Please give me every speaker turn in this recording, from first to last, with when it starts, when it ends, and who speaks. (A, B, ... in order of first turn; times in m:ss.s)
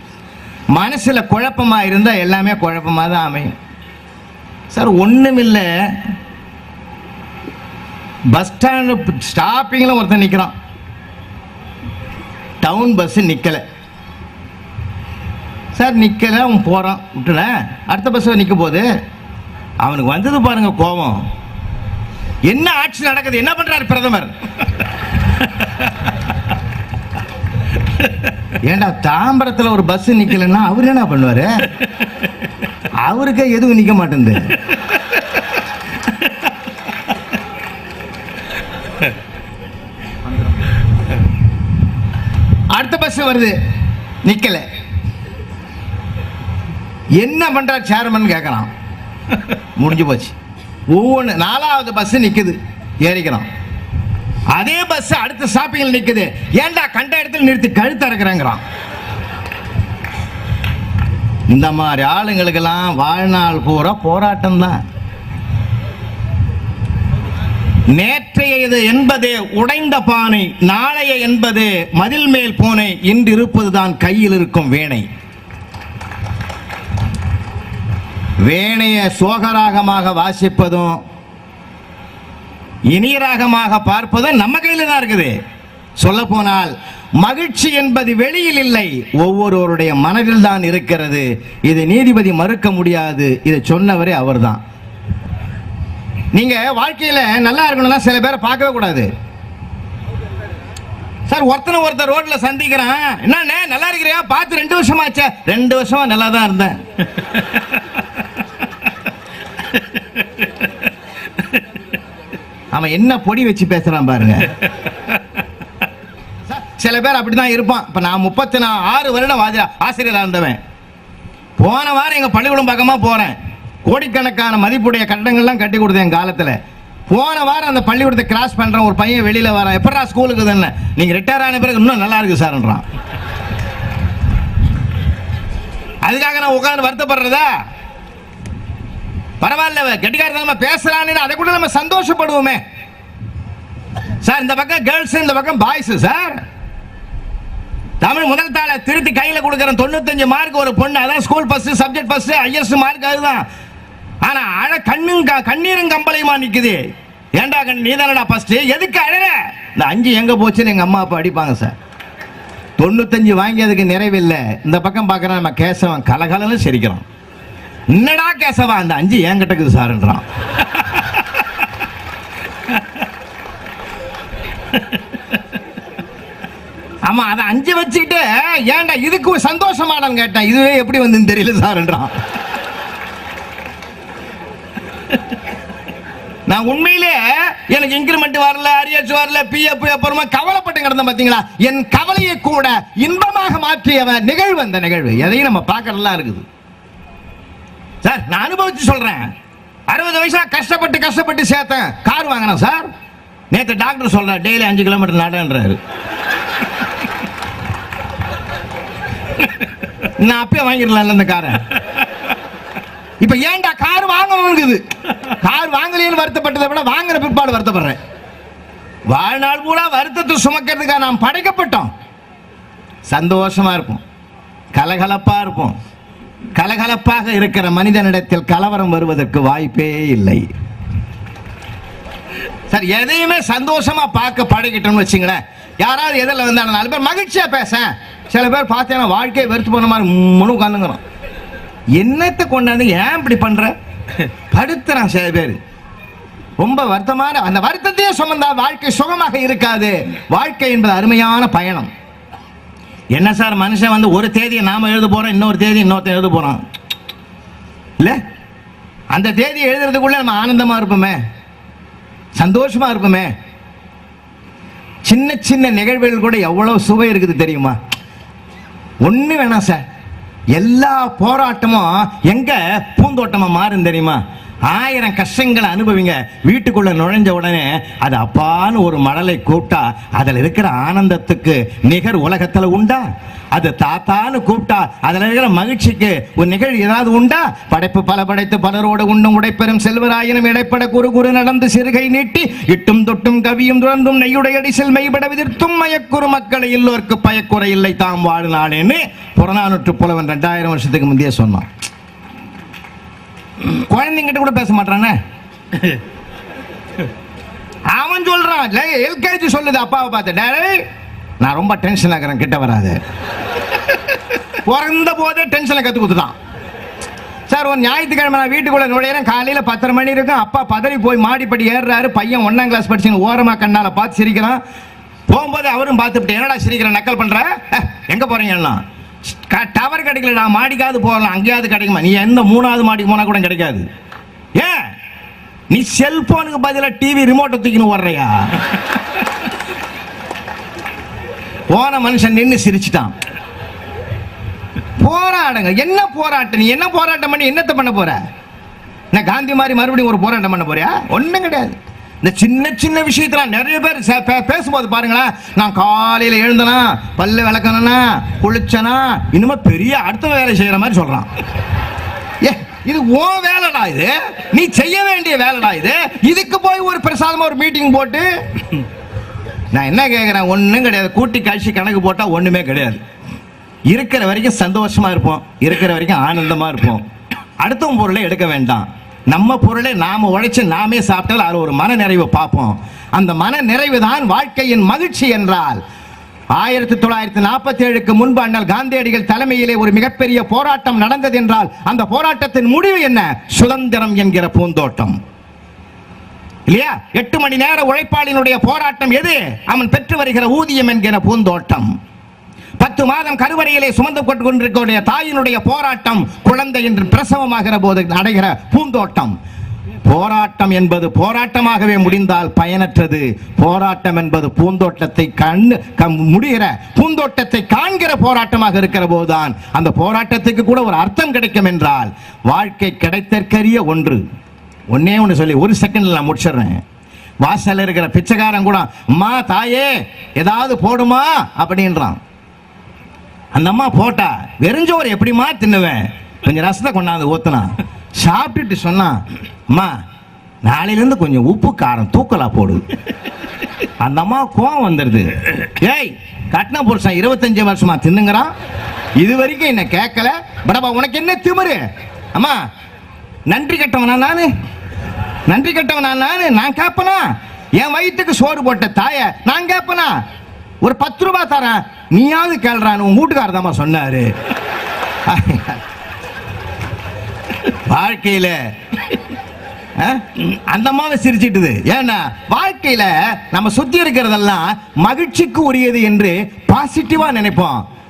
0:00.7-0:03.5 A
0:04.7-0:06.1 A
0:08.3-0:10.5 A
0:12.6-0:13.6 A
0:15.7-0:18.8 A
0:19.8-0:21.2 A
0:22.5-0:24.3 A
0:28.6-0:31.5 A
0:33.0-0:34.5 A
0:42.7-0:43.6 A
0:44.2-0:44.6 A
0:47.2-0:48.7 A
0:49.8-0:50.4 A
0:50.9-0:53.4 A
0:54.5-0:58.6 A
1:01.5-1:04.8 A
1:07.9-1:15.0 A
1:18.4-1:21.0 A
1:22.9-1:25.3 A
1:26.0-1:34.6 A
1:36.3-1:39.1 A
1:41.3-1:46.8 A
1:52.7-1:54.5 A
1:56.5-2:00.6 A
2:01.6-2:06.6 A
2:07.1-2:12.8 A
2:16.0-2:17.5 A
2:19.4-2:22.6 A
2:24.2-2:26.4 A
2:28.0-2:33.4 A
2:34.2-2:36.8 A
2:37.4-2:41.7 A
2:42.8-2:47.0 A
2:47.9-2:50.2 A
2:57.0-3:02.1 A
3:06.5-3:16.4 A
3:18.0-3:19.3 A
3:19.9-3:22.9 A
3:23.5-3:25.8 A
3:30.2-3:31.6 A
3:33.2-3:38.0 A
3:39.1-3:41.9 A
3:43.1-3:44.0 A
3:44.7-3:45.7 A
3:46.6-3:50.5 A
3:52.7-4:01.0 A
4:02.0-4:03.7 A
4:04.5-4:05.6 A
4:06.6-4:11.9 A
4:13.1-4:16.6 A
4:19.1-4:21.2 A
4:22.4-4:23.3 A
4:25.0-4:27.8 A
4:29.0-4:29.8 A
4:30.6-5:01.7 A
5:03.6-5:05.2 A
5:07.9-5:10.8 A
5:11.4-5:13.0 A
5:14.6-5:16.3 A
5:17.5-5:24.6 A
5:25.3-5:33.8 A
5:34.6-5:34.8 A
5:35.7-5:38.5 A
5:41.7-5:43.1 A
5:45.0-5:48.2 A
5:49.1-6:01.3 A
6:02.4-6:08.3 A
6:09.7-6:13.0 A
6:13.9-6:17.1 A
6:17.6-6:25.8 A
6:26.5-6:35.2 A
6:36.7-6:41.9 A
6:42.8-6:49.3 A
6:50.0-7:04.2 A
7:04.9-7:06.8 A
7:07.4-7:12.2 A
7:13.5-7:20.0 A
7:20.6-7:22.8 A
7:24.0-7:28.5 A
7:29.2-7:31.8 A
7:32.3-7:32.6 A
7:33.5-7:34.5 A
7:35.5-7:40.2 A
7:40.8-7:44.3 A
7:45.3-7:45.8 A
7:47.7-7:48.6 A
7:50.0-7:57.8 A